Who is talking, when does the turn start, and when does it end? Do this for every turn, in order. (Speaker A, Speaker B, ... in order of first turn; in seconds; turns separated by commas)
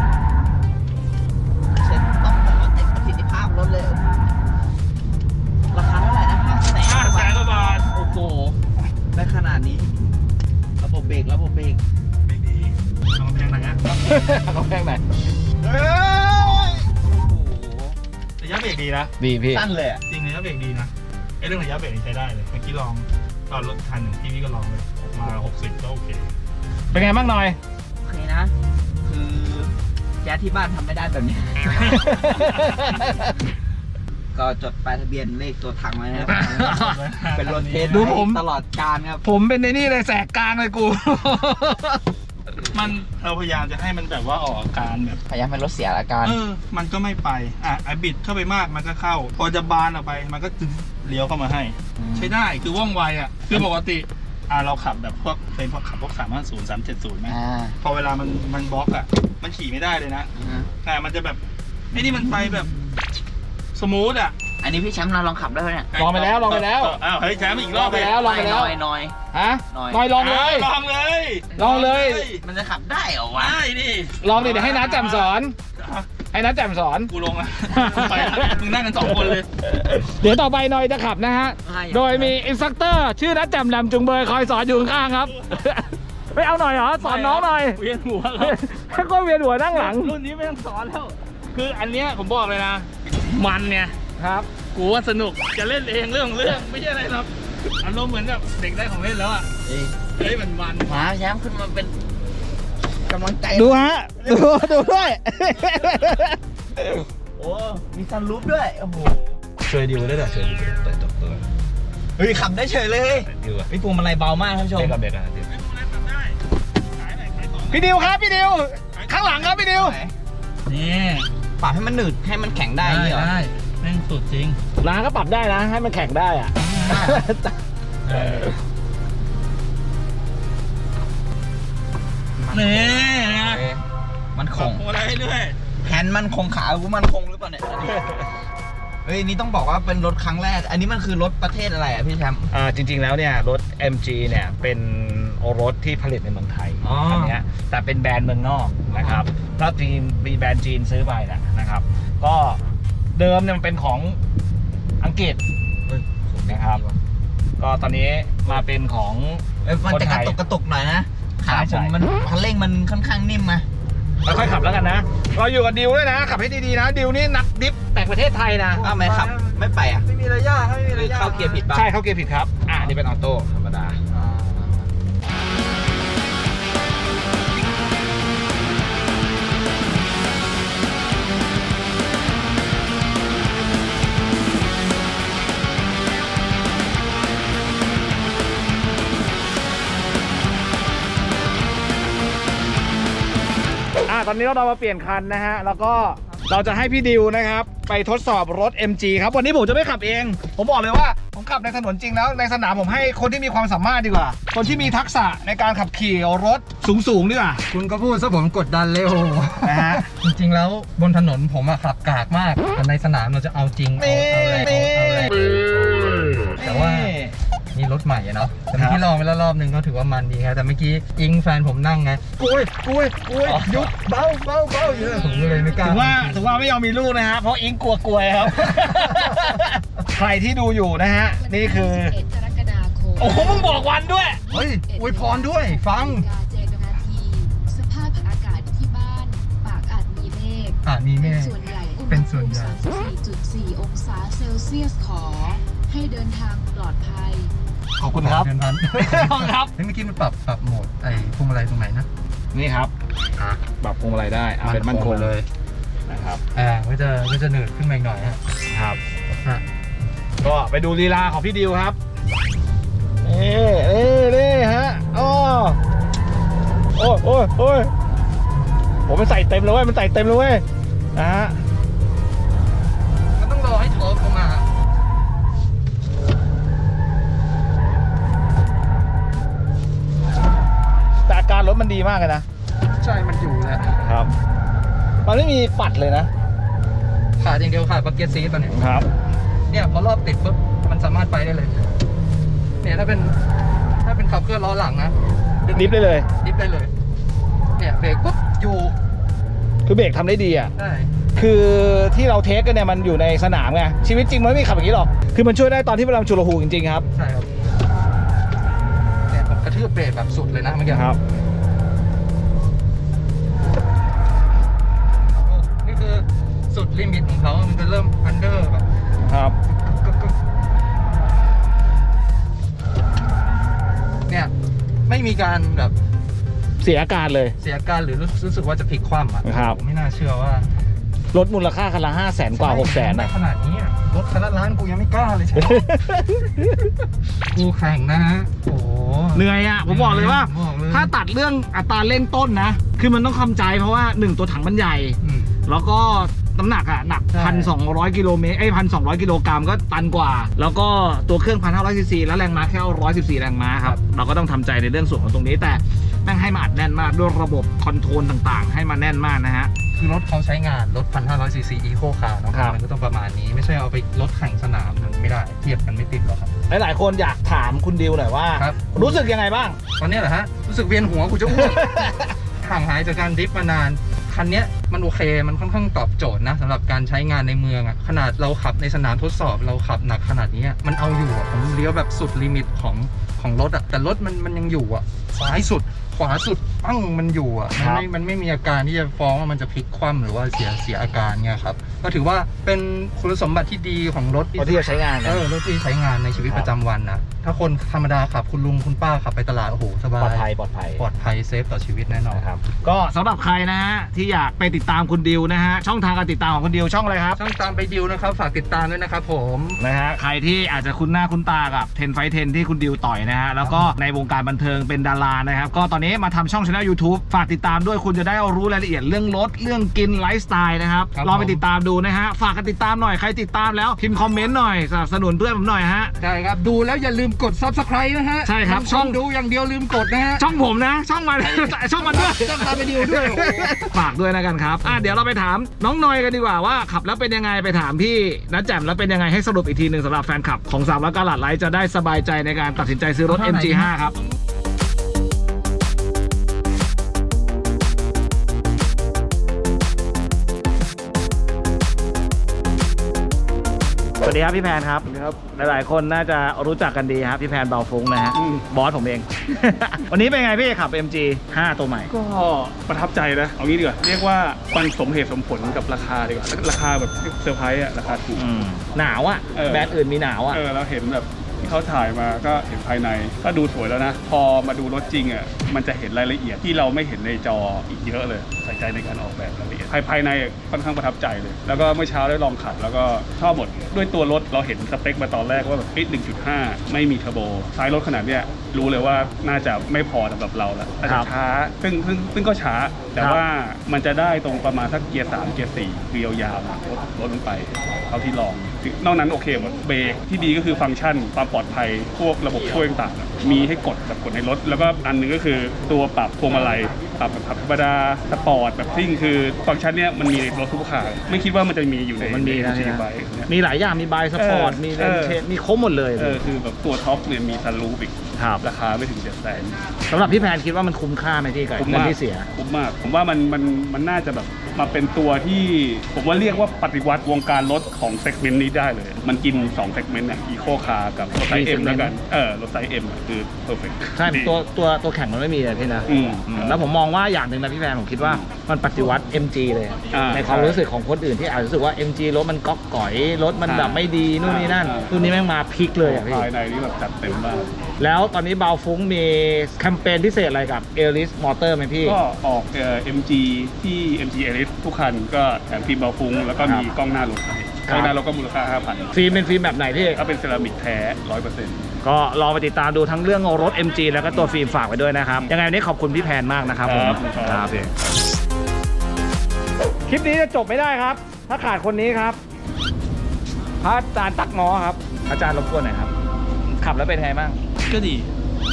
Speaker A: 1.7-4.2, Speaker A: 5.7-7.4, Speaker B: 6.7-7.9, Speaker A: 7.9-8.6, Speaker A: 9.1-9.9, Speaker A: 10.8-11.8, Speaker B: 12.2-13.8, Speaker C: 13.9-15.0, Speaker A: 15.6-18.0, Speaker B: 18.4-19.1, Speaker C: 19.2-19.6, Speaker A: 19.5-20.0, Speaker B: 20.1-26.3, Speaker C: 26.9-27.6, Speaker A: 28.0-32.4, Speaker B: 31.8-32.7, Speaker C: 31.9-33.0, Speaker A: 34.3-39.2, Speaker B: 36.1-38.1, Speaker C: 36.3-37.0, Speaker C: 37.9-38.4, Speaker C: 39.2-42.0, Speaker B: 42.7-45.2, Speaker A: 45.3-46.4, Speaker B: 46.2-60.3, Speaker A: 52.0-52.4, Speaker A: 57.3-57.8, Speaker A: 60.4-60.7, Speaker B: 60.8-61.4, Speaker B: 61.9-62.7, Speaker A: 62.3-62.7, Speaker B: 63.7-64.4, Speaker A: 64.6-65.9, Speaker B: 65.9-68.2, Speaker C: 66.0-67.0, Speaker A: 67.6-69.2, Speaker C: 67.8-68.7, Speaker C: 69.3-70.7, Speaker A: 69.7-70.1, Speaker B: 70.2-72.4, Speaker C: 71.5-72.3, Speaker A: 72.3-73.6, Speaker B: 73.3-76.1, Speaker C: 74.2-75.5, Speaker C: 76.3-77.1, Speaker B: 77.1-79.5, Speaker C: 77.7-87.8, Speaker A: 81.6-82.4, Speaker B: 87.0-88.6, Speaker C: 88.4-90.2, Speaker B: 89.7-94.0, Speaker C: 94.0-94.5, Speaker B: 94.6-99.5, Speaker A: 99.6-100.1, Speaker B: 100.1-101.0, Speaker A: 100.8-101.9, Speaker A: 103.0-104.6, Speaker C: 103.5-106.4, Speaker A: 106.8-109.4, Speaker C: 109.7-111.4, Speaker A: 112.2-115.0, Speaker C: 113.2-113.7, Speaker C: 114.7-115.5, Speaker B: 115.4-116.4, Speaker B: 116.9-117.9, Speaker C: 117.7-120.0, Speaker B: 118.9-119.8, Speaker A: 119.7-120.1, Speaker B: 120.7-121.3, Speaker A: 121.6-123.3, Speaker B: 122.8-124.6, Speaker C: 124.8-127.6, Speaker A: 126.6-127.2, Speaker C: 128.2-128.5, Speaker B: 132.5-133.6, Speaker A: 132.5-133.8, Speaker A: 134.3-134.8, Speaker B: 134.5-135.6, Speaker A: 135.8-138.3, Speaker A: 139.0-142.5, Speaker C: 142.5-152.6, Speaker A: 146.8-147.3, Speaker A: 148.9-149.2, Speaker C: 153.1-154.2, Speaker C: 155.0-155.4, Speaker A: 155.9-157.0, Speaker C: 156.4-156.8, Speaker C: 157.6-160.3, Speaker A: 159.6-163.7, Speaker C: 161.4-161.9, Speaker C: 164.2-168.9, Speaker A: 168.8-170.1, Speaker D: 168.8-171.6, Speaker A: 170.9-171.8, Speaker C: 171.7-174.0, Speaker D: 174.1-174.9, Speaker C: 194.1-207.6, Speaker D: 207.7-217.1, Speaker C: 209.6-210.0, Speaker C: 214.0-215.3, Speaker C: 216.6-217.3, Speaker D: 217.7-226.5, Speaker C: 218.7-219.0, Speaker C: 223.4-223.9, Speaker E: 224.8-225.9, Speaker C: 225.8-232.2, Speaker D: 228.7-229.2, Speaker E: 231.3-247.5, Speaker C: 233.2-234.4, Speaker D: 234.5-236.3, Speaker D: 240.8-242.8, Speaker C: 248.0-249.7, Speaker D: 248.1-252.1, Speaker C: 252.5-252.9, Speaker D: 253.3-253.6, Speaker C: 253.8-255.3, Speaker D: 254.6-255.5, Speaker C: 256.1-256.4, Speaker D: 256.5-258.4, Speaker C: 258.7-259.0, Speaker C: 260.4-262.0, Speaker C: 263.2-265.8, Speaker C: 266.9-267.9, Speaker C: 269.1-270.6, Speaker C: 271.1-271.6, Speaker D: 273.4-274.7, Speaker C: 281.3-282.4, Speaker D: 283.0-284.1, Speaker C: 284.0-284.3, Speaker C: 285.2-286.3, Speaker D: 287.4-288.8, Speaker C: 288.7-289.1, Speaker D: 289.7-291.9, Speaker D: 292.8-293.4, Speaker D: 294.0-296.9, Speaker C: 295.7-296.3, Speaker D: 297.8-298.9, Speaker C: 299.9-300.7, Speaker D: 300.7-301.1, Speaker C: 301.3-307.1, Speaker D: 307.1-307.5, Speaker D: 309.3-311.1, Speaker C: 310.9-311.2, Speaker D: 315.4-318.9, Speaker C: 319.2-319.5, Speaker D: 319.6-320.3, Speaker D: 324.3-324.5, Speaker D: 325.1-325.9, Speaker C: 326.8-327.5, Speaker D: 327.6-330.7, Speaker C: 329.4-329.8, Speaker C: 331.3-333.3, Speaker D: 332.5-335.8, Speaker C: 335.6-336.9, Speaker D: 337.4-341.1, Speaker C: 339.3-359.7, Speaker D: 345.2-345.5, Speaker D: 347.3-347.7, Speaker D: 359.9-366.5, Speaker C: 362.5-362.8, Speaker C: 366.7-369.8, Speaker D: 368.5-369.2, Speaker D: 370.0-402.4, Speaker C: 371.5-372.3, Speaker C: 387.8-388.1, Speaker C: 394.6-395.4, Speaker C: 396.4-396.7, Speaker C: 400.2-401.0, Speaker C: 402.3-407.4, Speaker D: 407.4-409.8, Speaker C: 409.8-426.1, Speaker D: 413.6-413.9, Speaker D: 421.1-421.6, Speaker D: 426.2-430.5, Speaker C: 428.4-429.2, Speaker C: 430.4-444.2, Speaker D: 431.4-433.9, Speaker A: 443.4-443.8, Speaker C: 454.2-462.1, Speaker F: 458.3-458.6, Speaker F: 462.1-468.4, Speaker C: 468.3-470.6, Speaker F: 469.5-469.9, Speaker F: 470.5-513.5, Speaker C: 491.0-491.3, Speaker C: 493.2-493.4, Speaker C: 512.2-516.4, Speaker F: 514.4-515.4, Speaker F: 516.1-519.8, Speaker C: 518.4-518.6, Speaker C: 520.1-522.5, Speaker F: 521.8-534.5, Speaker C: 531.5-532.1, Speaker C: 534.1-546.5, Speaker F: 536.1-536.8, Speaker F: 538.2-538.5, Speaker F: 540.1-540.8, Speaker F: 543.6-545.4, Speaker F: 546.0-547.7, Speaker C: 548.0-552.2, Speaker F: 552.0-559.1, Speaker C: 556.6-556.9, Speaker C: 557.9-558.1, Speaker C: 559.1-560.2, Speaker F: 560.1-561.9, Speaker C: 562.0-567.9, Speaker F: 566.8-567.8, Speaker C: 570.1-572.4, Speaker C: 573.8-576.1, Speaker C: 576.8-577.6, Speaker B: 577.8-578.3